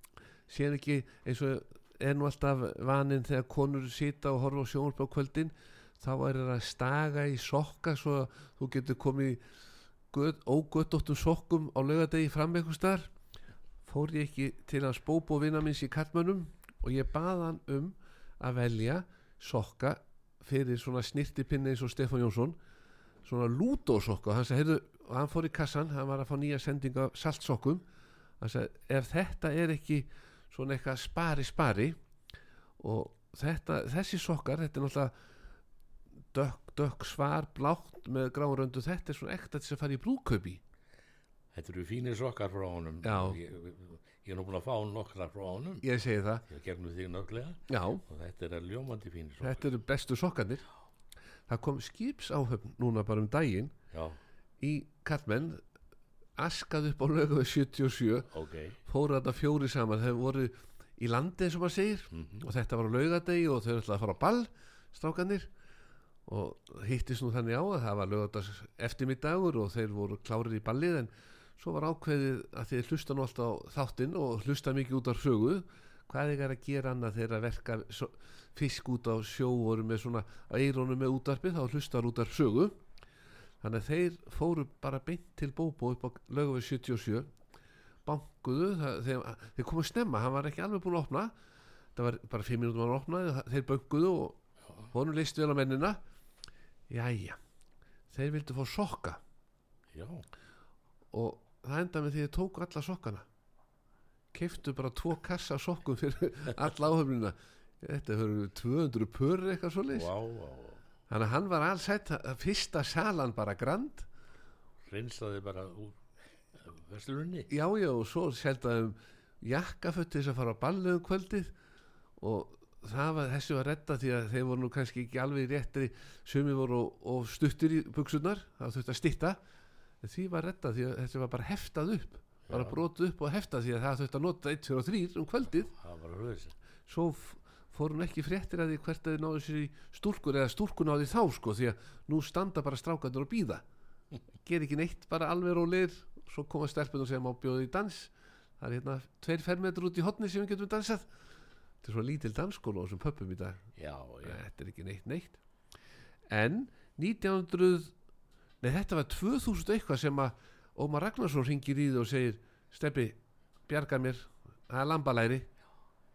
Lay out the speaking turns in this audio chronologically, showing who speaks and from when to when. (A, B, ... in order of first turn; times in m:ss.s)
0:00.5-0:09.4 A
0:10.1-0:13.1 A
0:13.8-0:22.6 A
0:23.2-0:27.8 A
0:28.4-0:32.0 A
0:32.8-0:35.1 A
0:36.3-0:40.6 A
0:41.5-0:45.8 B
0:43.0-0:43.4 A
0:45.8-0:46.4 A
0:46.5-0:49.6 B
0:47.7-0:48.0 A
0:49.4-0:50.6 A
0:51.5-0:53.7 A
0:53.9-0:54.2 B
0:54.6-0:55.6 A
0:56.4-0:58.3 A
0:58.3-0:58.8 B
0:58.8-1:05.5 A
1:02.1-1:02.4 B
1:06.2-1:22.8 A
1:23.6-1:27.3 A
1:28.0-1:31.3 A
1:31.9-1:34.4 A
1:34.9-1:36.0 A
1:36.9-1:37.4 A
1:38.1-1:39.2 A
1:39.9-1:40.2 B
1:41.1-1:43.2 A
1:44.3-1:50.1 A
1:49.9-1:50.8 B
1:51.1-1:54.1 A
1:54.8-1:56.0 B
1:56.6-1:57.5 B
1:57.5-2:01.5 A
2:02.2-2:09.4 A
2:10.0-2:15.7 A
2:12.5-2:12.8 B
2:15.5-2:16.6 B
2:16.9-2:23.6 A
2:24.4-2:31.1 A
2:31.8-2:33.6 A
2:33.8-2:34.4 B
2:34.2-2:35.4 A
2:36.3-2:37.9 A
2:38.6-2:45.5 A